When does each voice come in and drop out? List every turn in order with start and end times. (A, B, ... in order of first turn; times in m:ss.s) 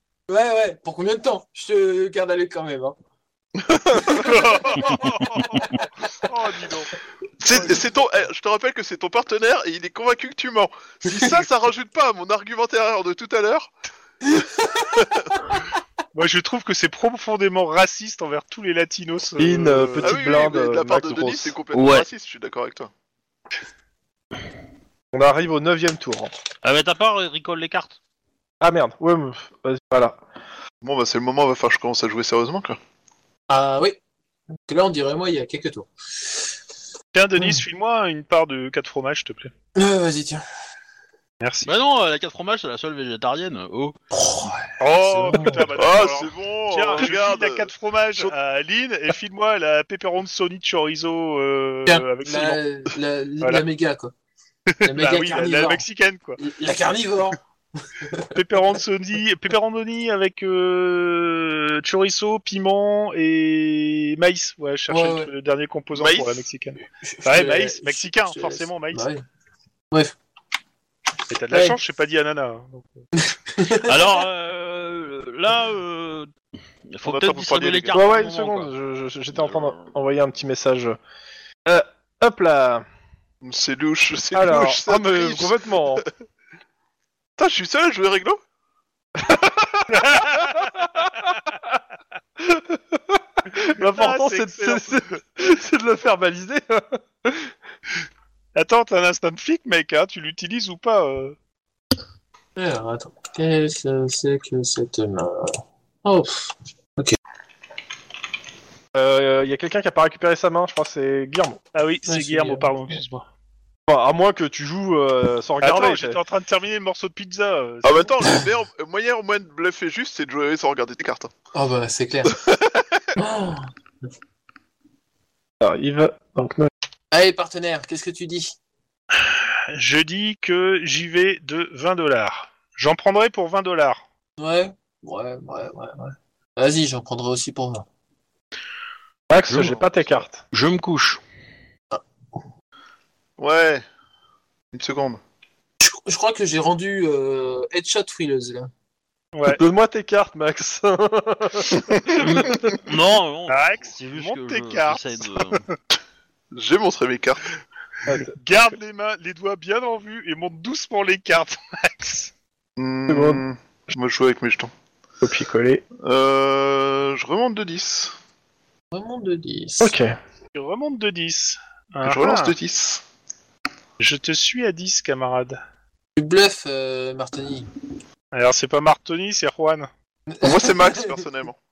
0:00.3-0:03.0 A
0:03.6-0:04.1 B
0:04.1-0:06.9 C
0:04.2-0:04.9 A
0:07.4-0:13.7 B
0:11.0-0:11.4 A
0:14.3-0:15.0 A
0:16.1-0:20.1 C
0:19.4-0:21.5 D
0:19.7-0:22.9 B
0:21.7-0:22.1 E
0:25.1-0:26.3 D
0:26.6-0:28.0 E
0:28.6-0:30.2 D
0:30.8-0:32.8 B
0:33.5-0:34.0 A
0:34.7-0:36.4 A
0:37.1-0:39.5 C
0:39.7-0:40.4 A
0:41.4-0:41.7 C
0:41.6-0:43.9 E
0:44.1-0:45.7 A
0:44.8-0:52.6 C
0:45.7-0:48.3 B
0:51.8-0:54.1 A
0:54.7-0:56.4 C
0:54.8-0:55.8 A
0:56.4-0:58.3 A
0:58.3-1:09.1 C
1:04.9-1:05.3 A
1:05.9-1:06.4 B
1:07.0-1:09.2 A
1:11.3-1:13.0 C
1:11.5-1:11.8 A
1:13.2-1:14.2 A
1:13.7-1:16.3 E
1:16.9-1:18.7 E
1:17.0-1:18.1 B
1:17.9-1:21.0 D
1:19.4-1:19.9 E
1:21.6-1:22.8 D
1:23.4-1:26.1 B
1:24.3-1:26.0 D
1:27.4-1:28.4 B
1:29.2-1:31.1 D
1:29.9-1:30.9 C
1:32.4-1:37.5 D
1:33.8-1:35.0 C
1:38.5-1:41.4 C
1:42.6-1:47.2 A
1:48.9-1:51.6 D
1:51.7-1:53.2 C
1:52.1-1:53.0 A
1:53.9-1:56.2 D
1:55.6-1:58.1 C
1:57.8-2:01.3 B
2:01.5-2:02.3 A
2:02.3-2:03.1 B
2:03.2-2:03.7 A
2:05.6-2:06.7 D
2:07.1-2:08.5 A
2:09.2-2:14.0 C
2:14.4-2:17.8 A
2:19.3-2:20.4 D
2:19.5-2:19.8 E
2:20.5-2:21.2 E
2:23.4-2:23.8 B
2:24.7-2:25.2 B
2:25.8-2:28.7 A
2:29.3-2:29.6 C
2:29.5-2:32.6 D
2:32.1-2:35.6 E
2:32.1-2:32.7 B
2:33.5-2:35.8 C
2:36.5-2:37.4 B
2:38.1-2:38.3 D
2:38.1-2:42.3 C
2:42.8-2:44.7 B
2:43.1-2:43.4 D
2:45.2-2:45.8 D
2:46.0-2:48.1 B
2:48.9-2:50.0 A
2:49.8-2:50.1 D
2:50.5-2:52.5 C
2:52.0-2:53.0 B
2:54.0-2:55.6 C
2:56.2-2:57.7 A
2:58.3-2:59.9 C
3:00.3-3:01.2 A
3:00.4-3:01.6 B